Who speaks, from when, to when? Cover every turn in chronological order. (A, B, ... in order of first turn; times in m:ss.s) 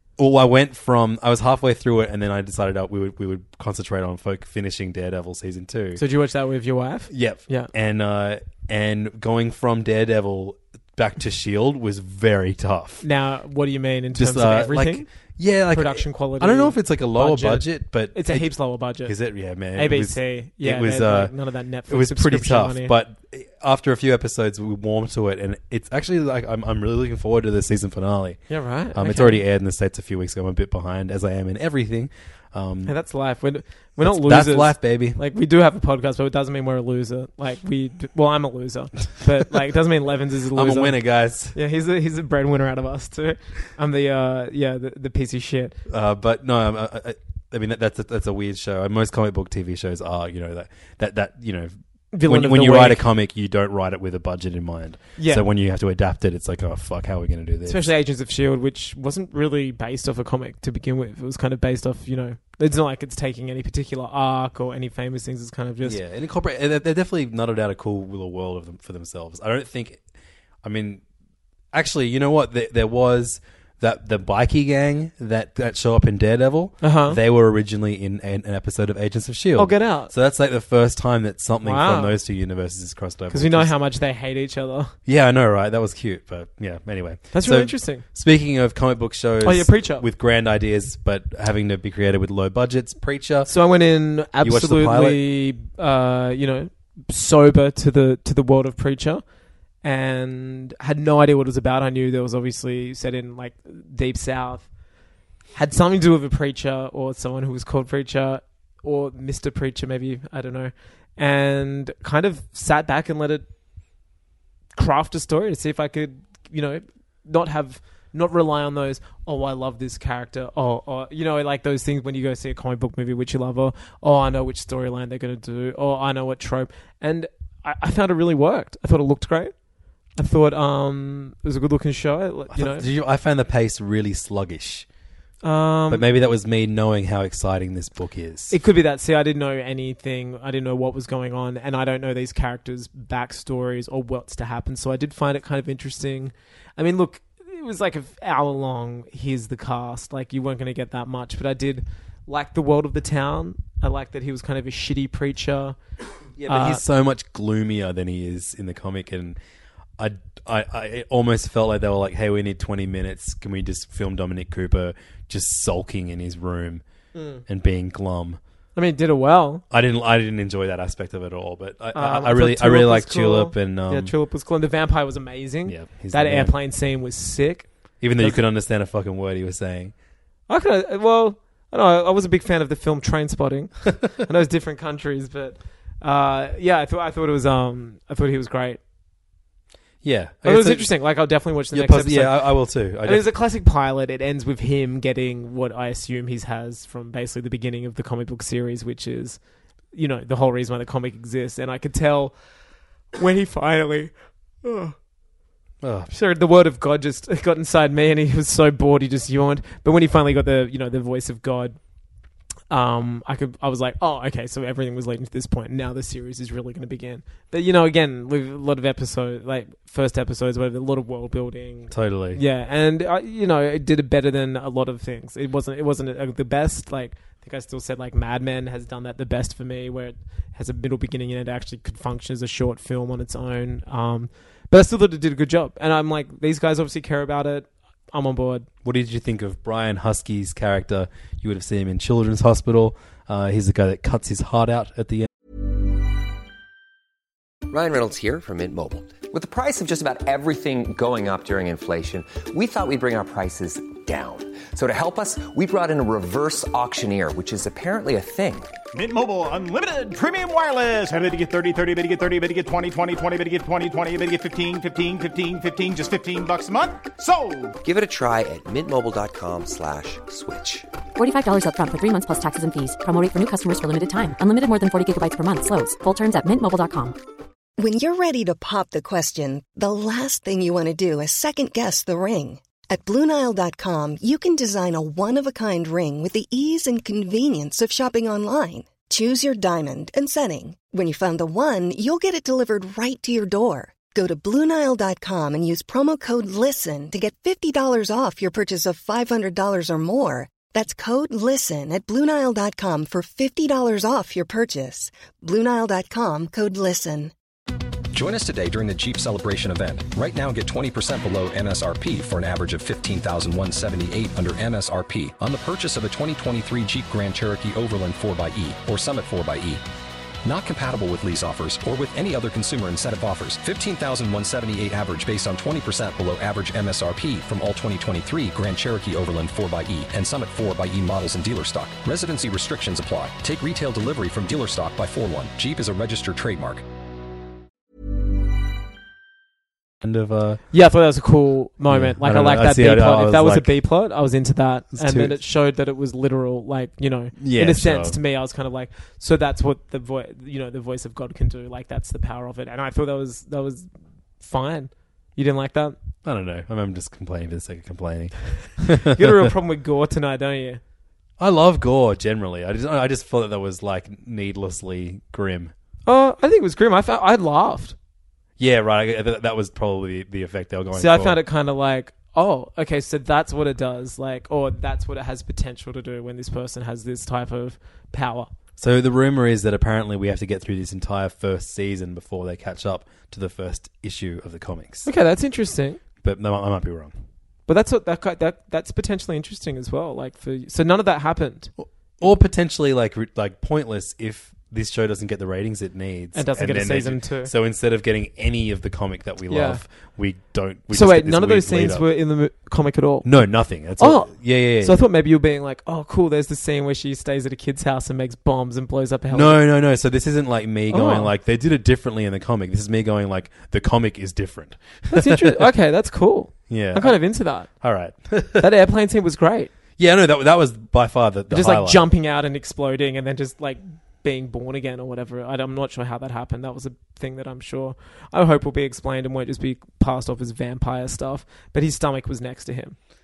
0:00.2-0:06.0 A
0:06.0-0:07.7 B
0:07.1-0:13.0 A
0:13.0-0:15.1 B
0:14.2-0:18.5 A
0:15.7-0:19.1 B
0:19.0-0:21.3 A
0:19.8-0:22.9 B
0:21.9-0:32.9 A
0:28.5-0:29.4 B
0:32.8-0:41.0 B
0:34.0-0:35.2 A
0:40.5-0:41.6 A
0:41.5-0:45.8 B
0:45.9-0:51.7 A
0:52.1-0:53.0 B
0:52.2-0:57.9 A
0:55.2-0:55.4 B
0:57.7-1:06.0 B
1:05.8-1:10.0 A
1:10.6-1:11.0 A
1:11.7-1:23.7 A
1:16.8-1:17.2 B
1:19.6-1:20.1 B
1:21.6-1:22.2 B
1:23.3-1:24.9 B
1:25.1-1:33.5 A
1:27.3-1:28.0 B
1:29.4-1:30.1 B
1:33.5-1:39.2 B
1:34.4-1:35.2 A
1:39.8-1:44.7 B
1:45.5-1:53.5 B
1:54.8-2:09.6 B
2:10.2-2:12.9 B
2:12.5-2:14.9 A
2:15.4-2:16.1 B
2:15.9-2:18.6 A
2:18.5-2:35.8 B
2:36.4-2:39.4 A
2:36.5-2:36.8 B
2:40.0-2:46.8 A
2:47.1-2:47.4 B
2:47.5-2:48.4 A
2:48.8-2:49.6 B
2:49.7-2:54.1 A
2:52.0-2:58.4 B
2:55.7-2:56.6 A
2:58.0-2:59.9 A
3:00.5-3:08.8 B
3:10.0-3:10.9 A
3:10.4-3:19.4 B
3:11.7-3:13.3 A
3:19.9-3:22.4 B
3:23.2-3:24.1 B
3:24.6-3:25.0 B
3:25.8-3:26.1 A
3:26.1-3:31.8 B
3:32.7-3:58.7 B
3:41.9-3:42.4 A
3:58.8-4:05.3 A
4:07.7-4:18.7 C
4:18.9-4:27.8 D
4:27.8-4:30.9 C
4:31.2-4:37.2 E
4:37.8-5:07.3 F
5:08.1-5:19.8 G
5:20.4-5:36.8 G
5:40.0-5:40.6 A
5:40.7-5:53.9 B
5:41.9-5:43.7 A
5:44.9-5:45.4 A
5:47.4-5:48.2 A
5:54.4-5:56.0 B
5:56.2-5:59.5 A
5:58.9-6:00.8 B
6:01.4-6:05.7 A
6:06.1-6:08.0 B
6:08.6-6:11.4 A
6:10.9-6:18.5 B
6:18.8-6:25.1 A
6:25.0-6:26.0 B
6:26.2-6:27.1 A
6:27.7-6:31.7 B
6:31.8-6:42.0 A
6:36.4-6:37.5 B
6:39.5-6:39.8 B
6:40.9-6:43.3 B
6:43.2-6:45.0 A
6:44.0-6:49.6 B
6:49.3-6:55.6 A
6:50.9-6:51.3 B
6:55.1-6:57.7 B
6:56.7-6:58.7 A
6:58.6-6:59.7 B
7:00.0-7:02.0 A
7:01.5-7:13.0 B